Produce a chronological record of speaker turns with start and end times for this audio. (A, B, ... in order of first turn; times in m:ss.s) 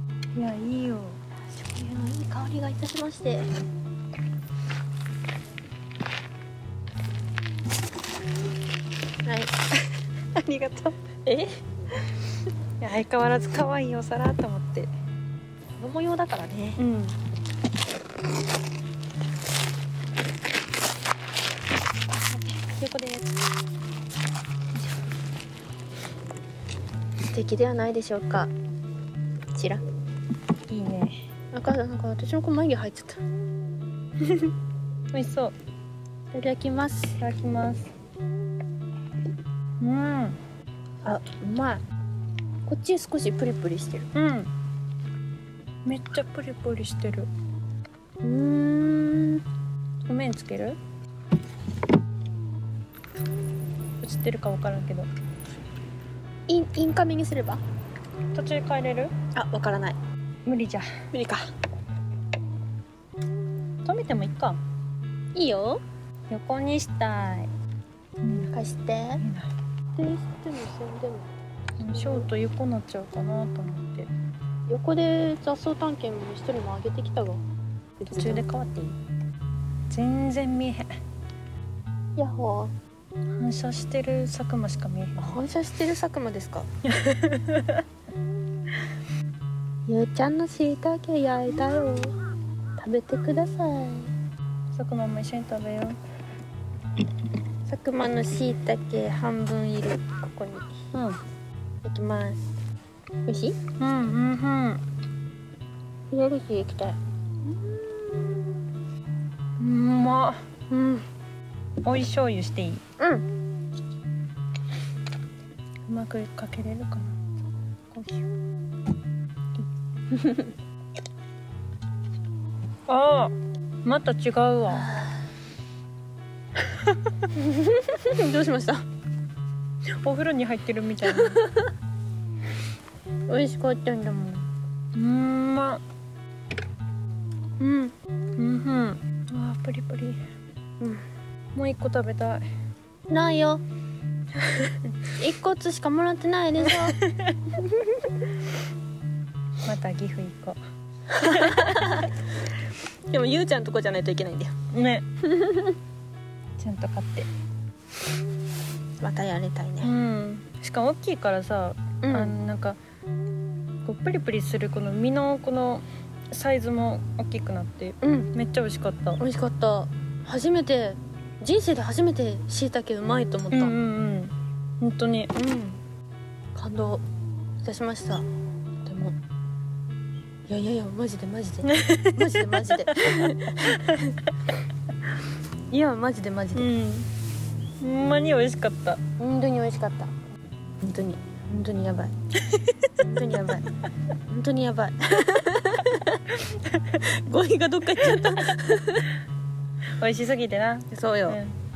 0:00.3-0:01.2 A
0:01.3-0:03.5 B
0:09.2-0:09.5 B
0:10.4-0:11.0 A
0:11.3-0:11.6 B
0:12.8-0:14.9 A
0:15.8-0:16.8 B
0:16.8-0:17.2 A
0:22.2-0:23.3 A
0:27.3-0:28.5 B
0:29.5-0:29.8 B
0:30.7-0:31.3 A
0:31.5-0:33.2 B
0:35.1-0:35.6 A
0:36.3-0:37.2 B
0:37.2-0:37.9 A
0:39.8-0:40.4 A
0:41.0-0:41.8 B
0:42.6-0:44.1 B
0:44.1-0:44.5 A
0:45.8-0:47.3 A
0:48.2-0:49.4 B
0:50.0-0:50.8 A
0:54.0-0:55.1 A
0:56.5-0:57.6 B
0:58.3-0:59.1 A
0:59.4-1:00.0 B
1:00.5-1:00.9 A
1:01.1-1:01.4 B
1:03.8-1:04.6 A
1:05.3-1:05.8 B
1:06.3-1:07.5 A
1:08.2-1:08.5 A
1:08.5-1:09.2 B
1:09.2-1:09.5 A
1:10.0-1:12.3 B
1:11.8-1:14.1 A
1:14.7-1:17.4 B
1:18.0-1:18.5 B
1:18.1-1:19.0 A
1:19.9-1:20.9 A
1:22.2-1:22.7 B
1:23.4-1:25.4 A
1:25.2-1:26.7 B
1:26.9-1:27.8 A
1:29.9-1:32.1 B
1:32.8-1:34.1 B
1:34.7-1:36.0 A
1:37.7-1:40.9 B
1:40.9-1:41.2 A
1:41.8-1:42.6 B
1:43.3-1:43.6 B
1:43.8-1:44.8 A
1:46.1-1:47.0 B
1:47.9-1:48.4 B
1:49.6-1:50.4 A
1:50.7-1:51.1 B
1:51.8-1:52.8 A
1:53.0-1:53.3 B
1:55.9-1:57.2 A
1:57.9-1:58.3 A
2:00.1-2:00.5 B
2:02.9-2:04.9 A
2:04.7-2:05.3 B
2:07.4-2:08.8 B
2:10.0-2:11.4 A
2:11.0-2:11.7 B
2:13.3-2:14.5 B
2:14.9-2:15.8 A
2:17.6-2:20.2 A
2:21.5-2:22.5 A
2:23.1-2:23.6 B
2:25.2-2:27.0 B
2:26.6-2:27.6 A
2:27.7-2:28.0 B
2:29.6-2:30.6 A
2:31.1-2:32.2 B
2:31.2-2:31.9 A
2:33.1-2:34.5 B
2:34.7-2:35.1 A
2:35.2-2:35.8 B
2:36.6-2:37.3 A
2:39.0-2:39.9 B
2:39.8-2:42.8 A
2:42.0-2:42.4 B
2:43.8-2:49.2 A
2:48.0-2:48.3 B
2:49.2-2:53.8 B
2:53.5-2:55.3 A
2:55.4-2:55.8 B
2:56.5-2:57.0 B
2:57.6-2:58.3 B
2:58.8-2:59.2 B
3:00.5-3:04.1 B
3:01.6-3:04.0 A
3:05.7-3:06.7 B
3:06.5-3:07.1 A
3:07.8-3:09.0 A
3:09.2-3:10.1 B
3:10.8-3:12.1 B
3:13.0-3:13.6 B
3:14.3-3:16.0 B
3:16.5-3:16.8 A
3:16.9-3:19.1 B
3:17.9-3:18.5 A
3:20.0-3:21.6 A
3:20.9-3:21.4 B